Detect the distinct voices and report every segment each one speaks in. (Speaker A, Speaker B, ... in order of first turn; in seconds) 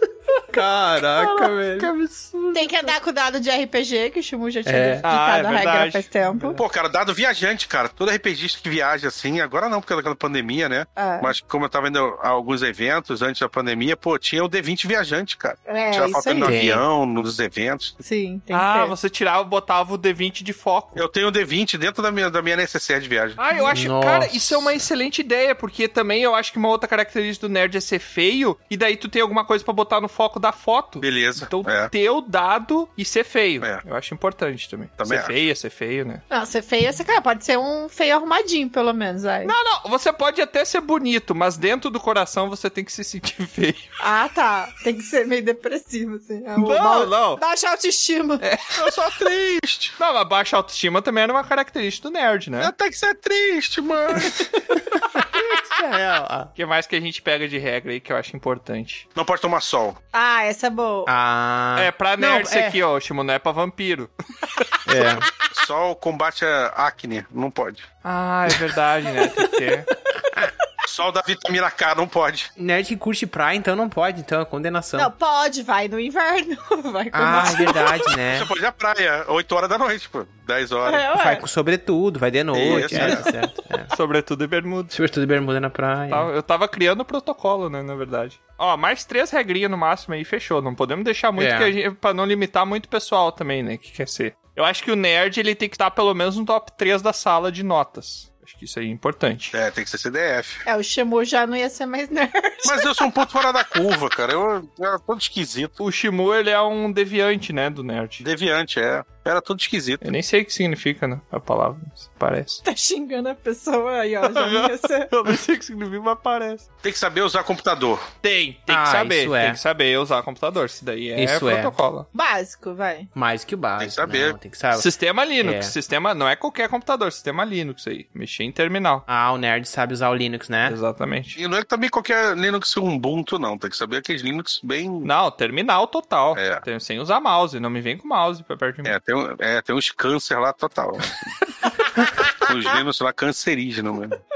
Speaker A: 0.5-1.9, 4.7-5.0, 16.4-16.8, 23.7-24.8, 55.3-56.5, 61.1-62.8, 64.8-65.3, 72.6-75.1, 77.1-78.5, 81.1-83.9, 84.9-86.3, 91.4-91.7, 118.7-119.6, 121.2-121.8, 123.1-124.9, 125.4-125.7, 129.1-130.8
Speaker B: 1.0-2.9, 5.0-6.6, 18.5-21.0, 23.4-36.2, 39.4-43.8, 46.6-47.4, 48.4-48.9, 50.0-52.7, 56.5-59.1, 61.8-64.7, 68.0-69.9, 82.7-83.3, 83.9-84.9, 86.1-99.5, 105.8-108.2, 110.0-112.6, 114.2-116.6, 118.2-122.0, 124.7-129.0, 130.7-131.4, 135.0-138.9
Speaker C: 2.5-6.6, 11.0-11.3, 15.7-16.5, 18.0-18.9, 36.3-39.5, 44.0-48.4, 60.1-61.1, 75.0-78.0, 80.8-81.4, 100.7-102.9, 112.6-115.1, 122.1-123.1
Speaker D: 6.6-18.0, 20.9-23.4, 31.0-31.9, 35.0-35.4, 48.8-50.0, 52.6-54.5, 59.1-60.0, 65.5-67.8, 70.8-72.5, 78.3-81.1, 82.5-83.3, 99.5-100.6, 102.6-105.8, 108.2-110.0, 116.8-118.0, 123.8-124.4, 131.3-135.1, 136.3-136.6, 138.8-141.3, 142.3-144.2